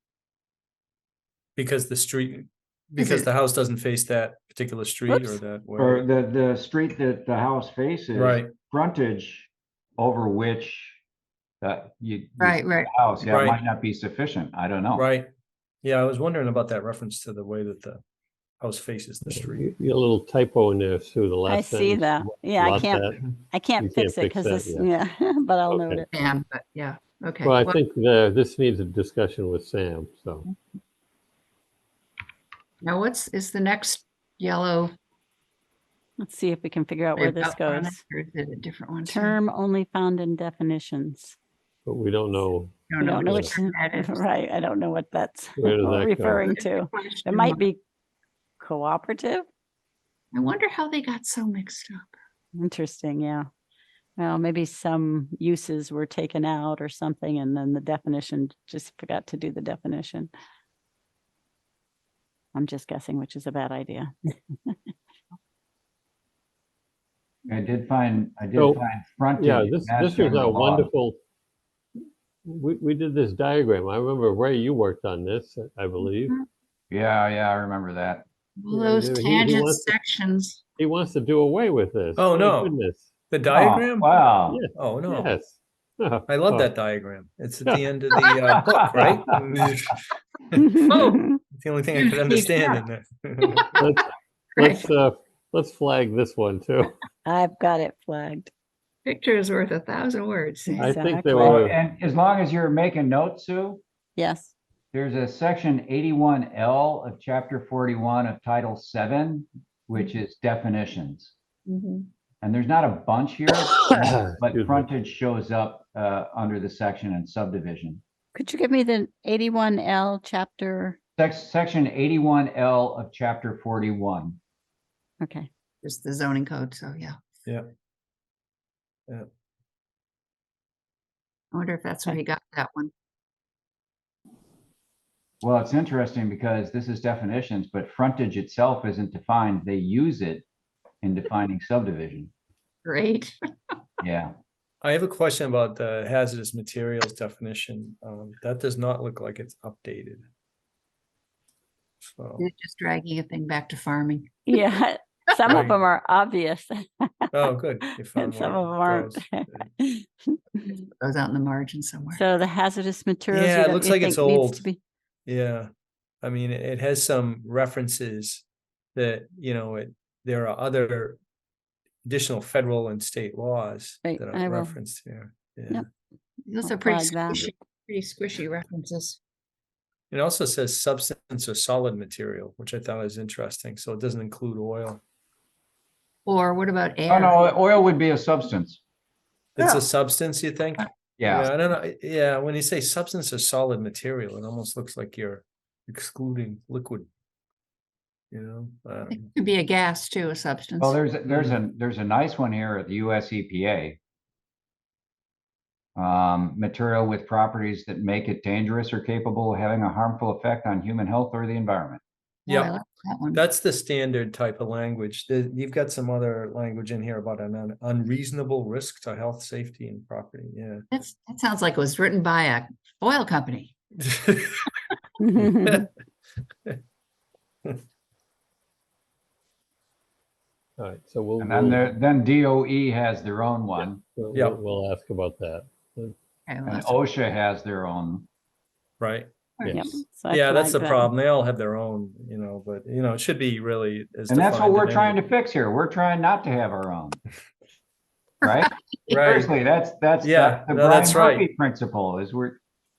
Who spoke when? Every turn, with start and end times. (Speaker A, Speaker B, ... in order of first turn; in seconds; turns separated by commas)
Speaker A: 1.6-6.1, Speaker B: 3.0-3.3, Speaker C: 5.1-5.4, Speaker D: 5.8-11.0, Speaker A: 8.2-8.5, Speaker D: 11.6-15.1, Speaker B: 12.4-12.9, Speaker A: 13.3-13.6, Speaker A: 14.9-15.3, Speaker A: 15.8-18.0, Speaker A: 18.6-19.7, Speaker E: 19.3-23.3, Speaker C: 21.5-26.1, Speaker E: 23.8-24.9, Speaker E: 25.7-26.1, Speaker B: 26.1-27.8, Speaker E: 27.4-30.5, Speaker B: 32.8-34.9, Speaker C: 36.2-38.0, Speaker B: 37.2-39.4, Speaker C: 39.0-41.4, Speaker E: 41.9-43.5, Speaker B: 42.9-44.2, Speaker C: 43.0-47.8, Speaker E: 45.6-46.5, Speaker B: 46.4-47.6, Speaker C: 48.6-49.5, Speaker B: 50.3-52.2, Speaker C: 52.6-53.5, Speaker C: 54.2-60.3, Speaker C: 62.5-64.1, Speaker D: 67.5-70.9, Speaker E: 68.5-68.8, Speaker E: 69.4-71.2, Speaker E: 72.5-76.4, Speaker D: 76.9-78.3, Speaker B: 78.6-80.6, Speaker E: 78.7-79.9, Speaker E: 80.8-83.1, Speaker A: 82.2-82.8, Speaker A: 83.3-84.2, Speaker D: 83.5-84.6, Speaker E: 84.5-86.7, Speaker A: 84.8-85.3, Speaker A: 86.3-90.8, Speaker D: 88.3-88.6, Speaker E: 89.0-89.3, Speaker C: 90.6-91.4, Speaker B: 90.8-91.2, Speaker A: 91.5-93.7, Speaker B: 92.0-92.8, Speaker B: 93.4-93.8, Speaker E: 93.8-96.9, Speaker B: 94.6-94.8, Speaker C: 97.2-98.5, Speaker B: 99.1-101.0, Speaker C: 100.8-101.6, Speaker E: 100.8-101.8, Speaker D: 101.4-103.8, Speaker C: 104.2-104.5, Speaker D: 104.9-111.3, Speaker B: 111.7-112.1, Speaker D: 112.4-118.0, Speaker E: 113.9-114.9, Speaker C: 118.3-121.0, Speaker D: 121.2-124.4, Speaker C: 125.2-125.5, Speaker B: 125.8-127.2, Speaker B: 131.5-132.9, Speaker D: 135.4-140.4, Speaker D: 141.0-142.3, Speaker B: 142.8-143.3, Speaker D: 144.0-144.3, Speaker A: 144.8-150.2, Speaker A: 152.0-152.5, Speaker B: 152.4-154.6, Speaker C: 154.5-157.1, Speaker A: 155.5-155.8, Speaker A: 157.3-159.7, Speaker C: 158.2-160.7, Speaker B: 160.8-162.2, Speaker C: 162.1-164.8, Speaker A: 163.3-164.7, Speaker A: 165.3-165.7, Speaker A: 166.2-171.2, Speaker A: 172.1-175.8, Speaker C: 174.0-174.8, Speaker B: 176.5-179.2, Speaker C: 176.6-177.5, Speaker A: 180.1-185.0, Speaker B: 186.3-187.5, Speaker D: 187.1-188.8, Speaker A: 189.6-197.1, Speaker B: 189.6-189.8, Speaker D: 191.2-191.5, Speaker A: 198.3-199.3, Speaker B: 199.1-201.0, Speaker D: 200.8-204.0, Speaker A: 201.3-201.6, Speaker D: 206.0-212.0, Speaker A: 212.5-212.7, Speaker B: 212.5-213.4, Speaker A: 213.3-220.9, Speaker B: 220.9-223.7, Speaker A: 224.1-224.7, Speaker C: 225.2-225.9, Speaker A: 225.4-225.9, Speaker E: 230.8-231.8, Speaker D: 231.4-234.0, Speaker E: 234.2-236.2, Speaker B: 236.5-237.0, Speaker D: 236.7-238.3, Speaker A: 239.0-239.3, Speaker E: 239.6-240.0, Speaker C: 239.7-241.1, Speaker A: 240.3-245.2, Speaker D: 244.3-247.2, Speaker B: 248.4-249.4, Speaker D: 248.4-252.6, Speaker A: 249.1-249.5, Speaker A: 250.2-251.5